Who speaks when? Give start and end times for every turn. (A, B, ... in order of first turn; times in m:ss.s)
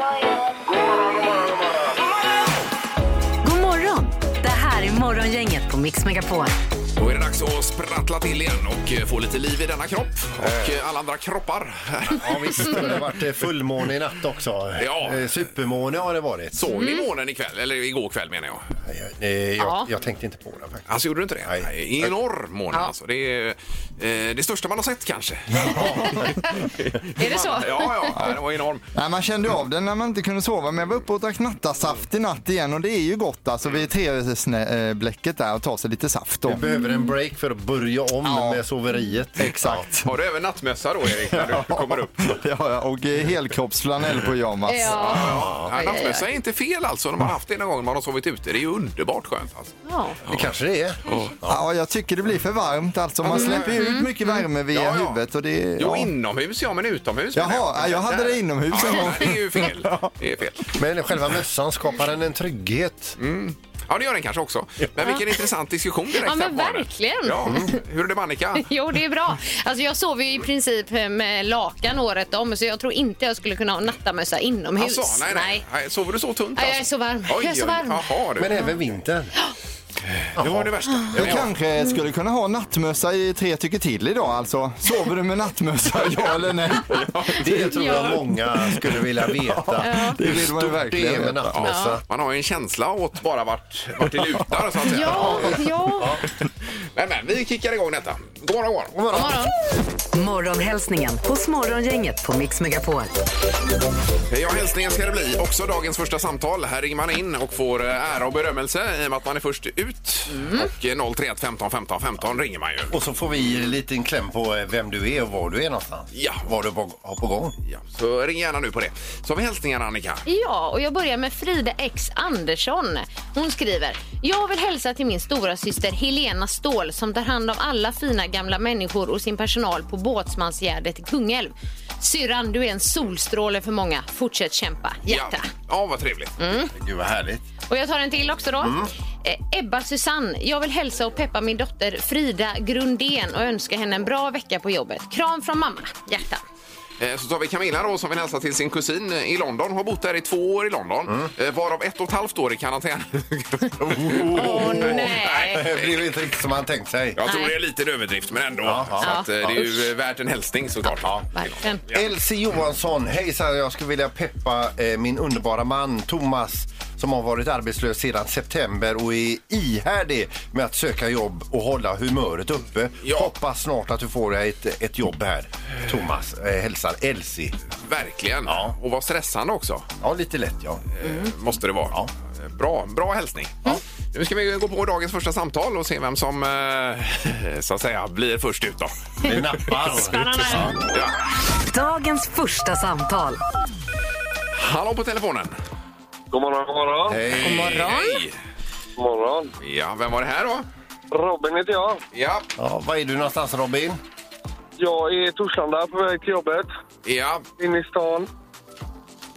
0:00.6-0:02.0 A
0:03.4-0:06.5 B
0:07.0-0:13.0 C
0:10.4-0:10.8 D
0:12.2-0:16.6 D
0:14.8-0:15.3 C
0:16.6-0:18.6 C
0:16.7-0:17.1 E
0:18.9-0:22.1 D
0:19.6-0:19.9 E
0:20.9-0:28.9 C
0:25.7-0:26.0 D
0:27.2-0:28.2 E
0:29.0-0:36.6 F
0:36.5-0:39.9 D
0:38.2-0:38.6 F
0:39.4-0:40.1 F
0:40.0-0:42.3 C
0:41.3-0:45.2 F
0:44.7-0:46.2 E
0:44.9-0:49.8 C
0:45.4-0:45.7 D
0:49.8-0:50.2 E
0:50.3-0:51.6 D
0:50.3-0:50.5 C
0:51.1-0:51.4 C
0:51.5-0:56.1 F
0:53.2-0:53.8 C
0:53.3-0:54.4 E
0:54.7-0:55.2 C
0:55.8-1:00.7 C
0:57.4-0:59.7 F
1:00.7-1:03.2 D
1:03.2-1:08.7 C
1:06.2-1:07.8 E
1:08.6-1:15.6 E
1:14.8-1:18.6 C
1:16.6-1:18.0 E
1:18.4-1:19.3 D
1:20.4-1:21.5 D
1:20.4-1:21.5 C
1:21.2-1:28.1 F
1:26.0-1:27.7 C
1:27.4-1:32.0 D
1:27.8-1:28.1 E
1:29.6-1:31.6 F
1:29.8-1:30.2 E
1:31.5-1:35.5 C
1:31.6-1:32.0 E
1:34.9-1:36.1 E
1:35.1-1:36.2 D
1:37.0-1:39.0 C
1:38.9-1:39.5 D
1:39.1-1:39.5 E
1:40.1-1:43.1 B
1:44.3-1:52.9 C
1:50.3-1:50.7 E
1:52.9-1:57.6 D
1:56.1-1:56.4 C
1:57.7-2:00.2 C
2:00.3-2:15.5 E
2:15.1-2:16.4 C
2:16.4-2:16.7 E
2:16.7-2:17.4 D
2:17.7-2:26.4 E
2:18.6-2:18.9 D
2:27.0-2:36.0 C
2:33.8-2:37.2 D
2:34.3-2:35.7 E
2:37.2-2:41.2 C
2:37.2-2:37.5 E
2:38.6-2:39.8 D
2:39.0-2:39.3 E
2:41.3-2:41.8 E
2:41.9-2:57.6 D
2:53.0-2:53.3 C
2:57.8-2:59.9 C
2:58.5-2:58.8 D
3:00.0-3:00.8 D
3:01.0-3:03.6 C
3:01.0-3:01.3 E
3:04.1-3:08.9 C
3:09.2-3:10.8 D
3:10.1-3:10.6 E
3:11.7-3:13.4 B
3:14.6-3:15.6 C
3:16.3-3:17.2 A
3:17.1-3:17.8 D
3:17.4-3:18.4 C
3:17.4-3:18.2 E
3:19.0-3:19.5 A
3:19.6-3:20.7 C
3:21.1-3:22.0 A
3:22.1-3:22.5 C
3:22.6-3:24.0 D
3:24.8-3:26.7 A
3:27.0-3:27.4 C
3:27.6-3:28.3 A